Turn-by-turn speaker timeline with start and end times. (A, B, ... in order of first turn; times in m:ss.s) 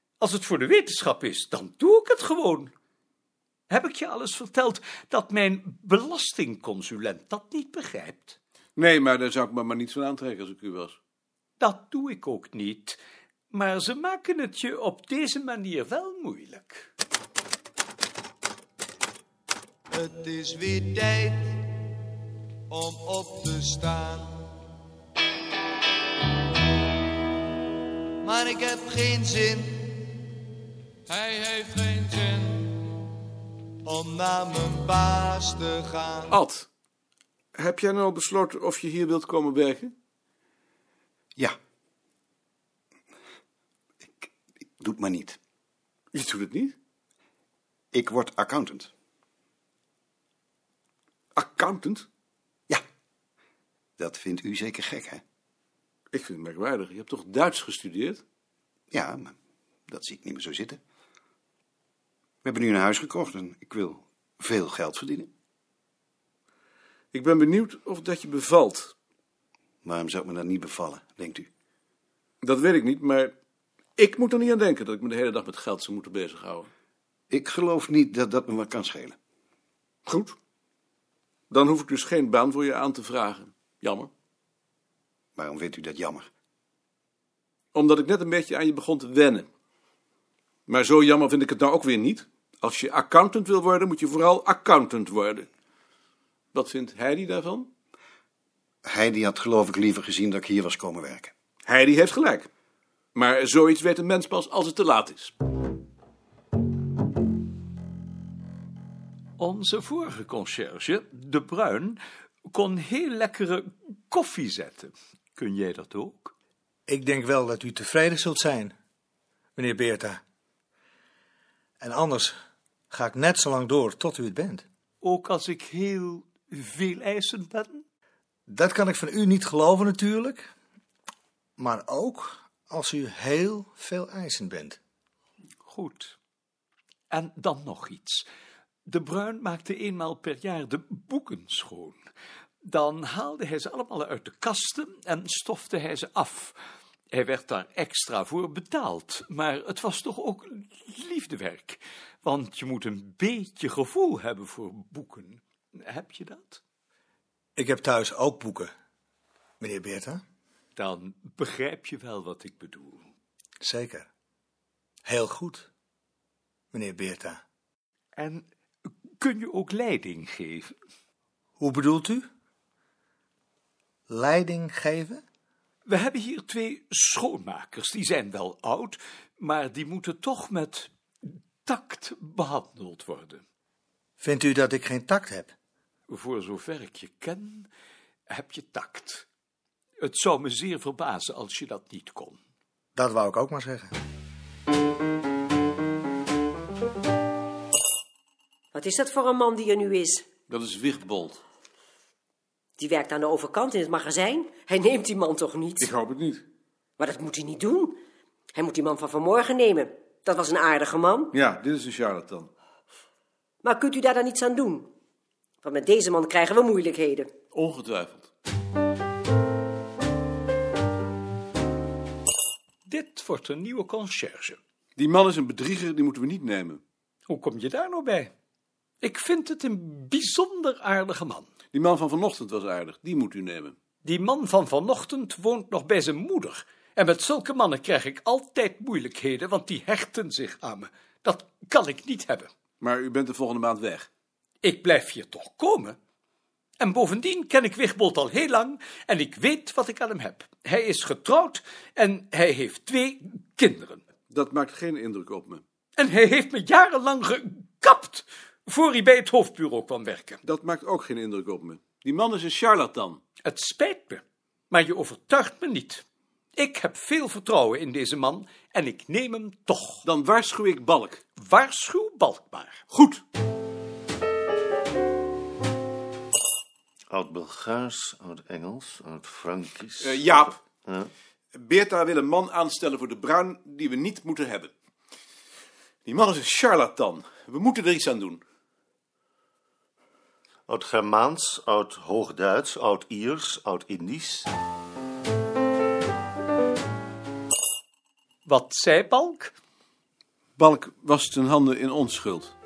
0:00.2-0:02.7 A
0:03.7-0:08.4 A
0:08.8-0:11.0 B
0:11.6-0:13.0 A
0:13.5-0:16.9 A
0:19.9-0:21.6 C
0:22.7-0:24.4 C
0:28.2-0:30.0 C
0:31.1-0:32.8 C
0:33.8-0:36.4 C
0:36.3-0:36.7 B
0:37.6-0:39.9 B
0:44.8-0:45.4 D
0:46.1-0:46.8 B
0:47.9-0:48.9 D
0:51.4-0:52.1 B
0:54.0-0:55.2 D
0:56.1-0:58.2 B
0:58.9-0:59.4 D
0:59.9-1:00.8 D
1:02.4-1:05.3 D
1:07.1-1:08.9 B
1:09.8-1:11.5 D
1:12.4-1:13.3 B
1:14.0-1:16.7 B
1:17.3-1:19.2 D
1:20.1-1:20.4 B
1:21.5-1:24.1 B
1:25.4-1:26.3 D
1:27.7-1:29.5 B
1:30.7-1:35.5 B
1:36.5-1:37.7 B
1:38.8-1:41.3 D
1:41.6-1:42.5 B
1:43.2-1:45.3 B
1:49.4-1:56.3 A
1:56.9-1:58.7 E
1:59.6-2:00.2 E
2:01.8-2:02.4 E
2:02.9-2:04.6 E
2:05.0-2:07.8 A
2:08.5-2:10.5 E
2:11.6-2:14.8 E
2:15.6-2:16.2 A
2:17.1-2:18.2 A
2:18.9-2:22.0 A
2:22.6-2:26.6 A
2:27.1-2:36.6 A
2:37.6-2:38.7 E
2:39.6-2:40.2 E
2:40.8-2:43.0 A
2:43.6-2:44.1 E
2:45.1-2:45.7 E
2:46.7-2:47.4 E
2:48.2-2:48.4 A
2:49.2-2:50.7 A
2:51.6-2:52.3 E
2:54.1-2:55.2 E
2:55.9-3:00.9 A
3:01.6-3:03.4 A
3:04.2-3:05.5 E
3:06.1-3:07.7 A
3:08.3-3:09.3 A
3:10.0-3:12.4 A
3:13.0-3:13.9 E
3:18.7-3:20.3 F
3:20.5-3:21.4 B
3:22.8-3:25.9 F
3:25.8-3:26.4 B
3:27.0-3:28.0 F
3:28.5-3:31.3 F
3:31.3-3:32.5 B
3:33.6-3:34.9 F
3:35.6-3:37.3 F
3:37.5-3:38.3 B
3:42.9-3:44.6 A
3:45.0-3:46.8 B
3:47.3-3:48.3 A
3:49.0-3:51.5 A
3:51.7-3:53.8 B
3:54.0-4:02.5 A
4:02.8-4:04.1 B
4:04.6-4:06.0 A
4:06.8-4:14.0 A
4:14.3-4:15.6 B
4:16.0-4:20.4 A
4:20.4-4:23.2 B
4:23.4-4:26.0 A
4:26.6-4:30.0 A
4:30.0-4:31.2 B
4:31.4-4:32.8 A
4:32.9-4:33.2 B
4:37.1-4:40.2 G
4:40.0-4:40.6 B
4:41.6-4:44.7 B
4:46.0-4:48.4 B
4:50.7-4:54.5 G
4:58.4-4:59.5 A
5:00.6-5:02.5 B